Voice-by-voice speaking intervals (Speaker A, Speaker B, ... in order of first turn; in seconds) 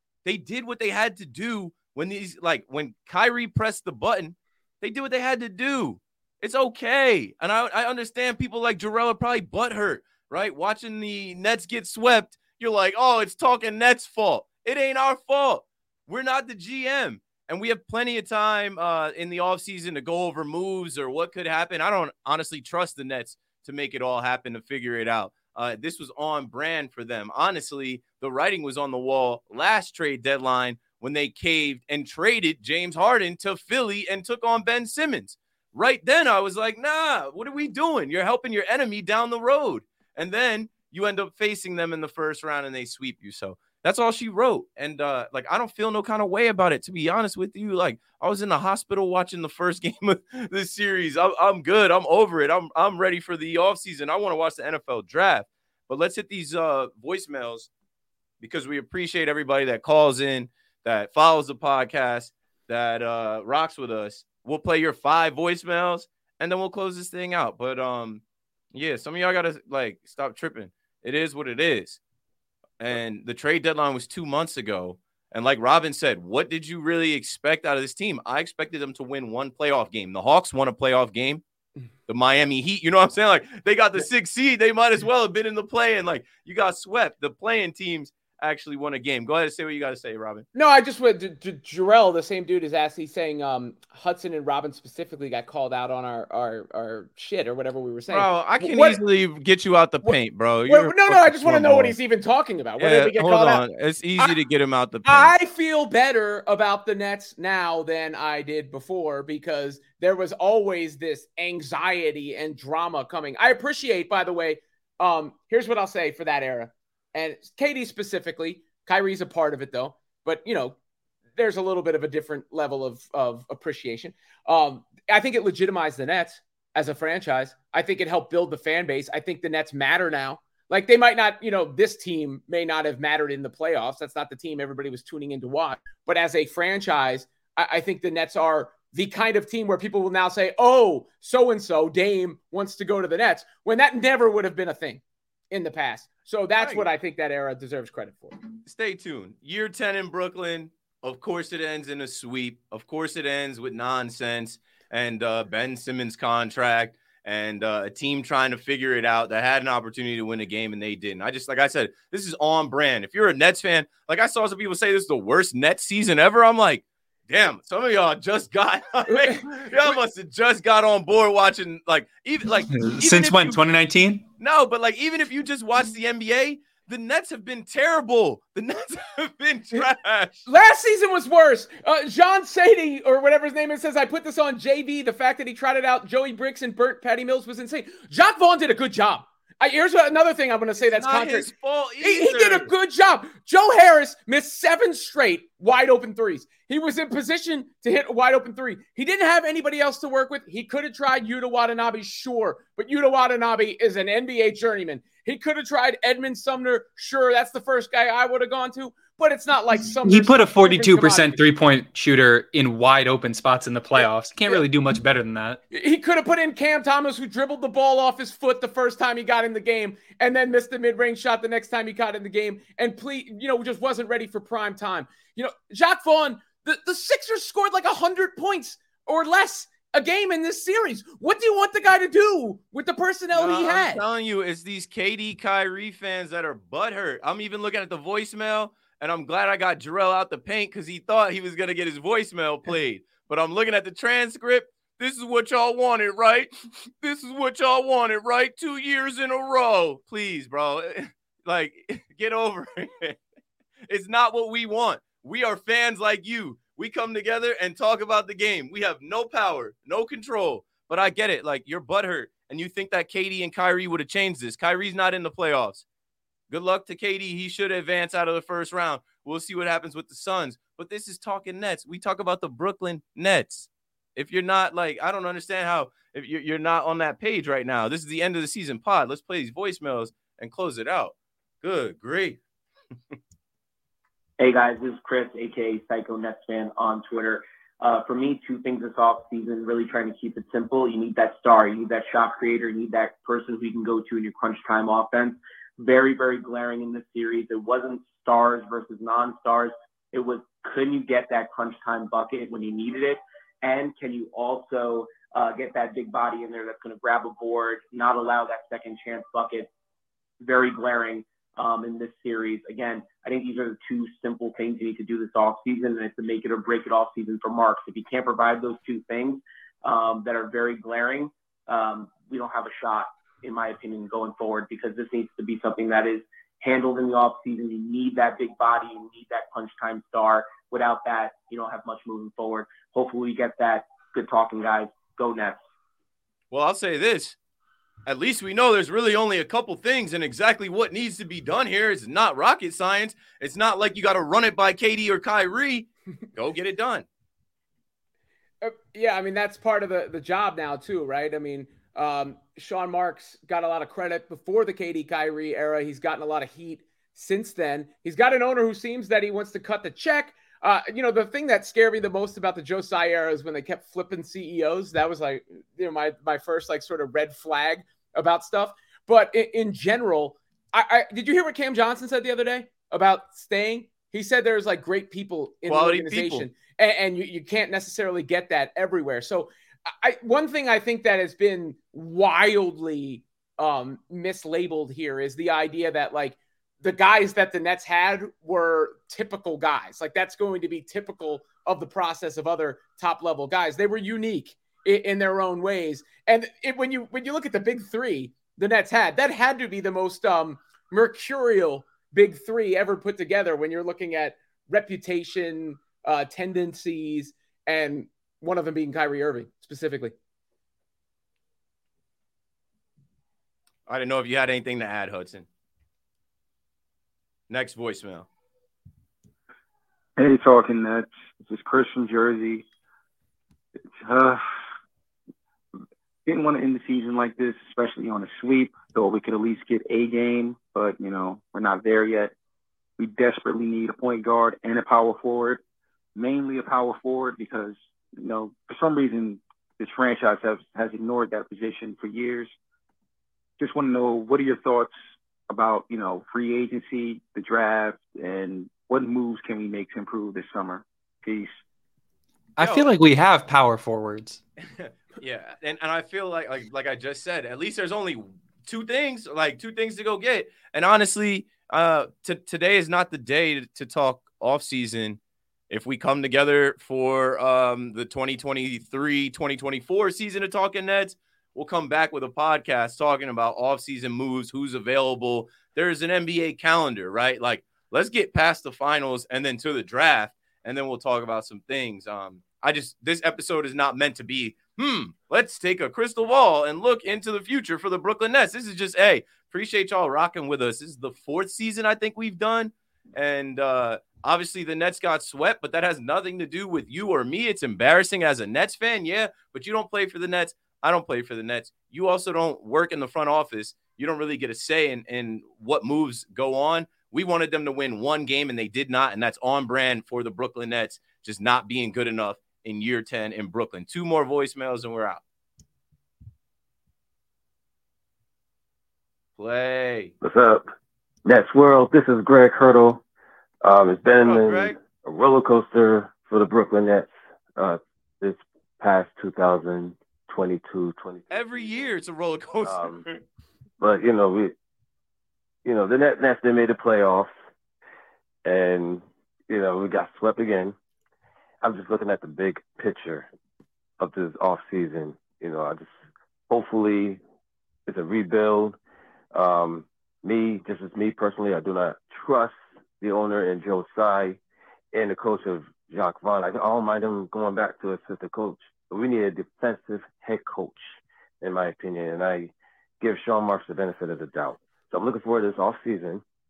Speaker A: 0.2-57.7, 58.4-68.2, 68.7-72.0, 72.8-81.4, 82.1-90.5, 98.1-102.0, 102.8-105.3, 146.6-146.8, 148.7-173.6, 174.4-180.4, 190.9-192.7, 233.3-253.2, 253.9-265.9, 266.5-282.4, 336.5-337.4, 338.1-347.1, 375.7-376.5, 413.9-415.5, 417.5-418.3, 452.6-452.9, 454.6-465.2, 465.7-515.2, 519.4-520.1, 524.2-524.8, 531.3-533.2
Speaker B: 90.5-99.0, 100.7-103.6, 105.0-120.8, 121.4-148.4, 169.1-169.7, 180.5-191.5, 192.0-211.4, 214.0-214.6, 215.7-234.0, 348.6-410.1
Speaker C: 172.7-174.2, 210.1-215.6, 452.6-454.4
Speaker D: 284.4-309.7, 310.4-335.6
Speaker E: 420.2-422.6, 423.9-424.4, 426.2-432.3, 433.0-435.6, 436.1-442.5, 443.6-444.9, 445.5-451.5
Speaker F: 520.2-520.7, 521.2-523.0, 523.6-531.9, 532.6-533.0, 533.8-534.5, 535.6-537.3, 538.5-540.8, 541.6-543.3, 544.0-545.9, 546.5-547.2, 547.9-548.8, 549.3-554.4, 554.9-566.2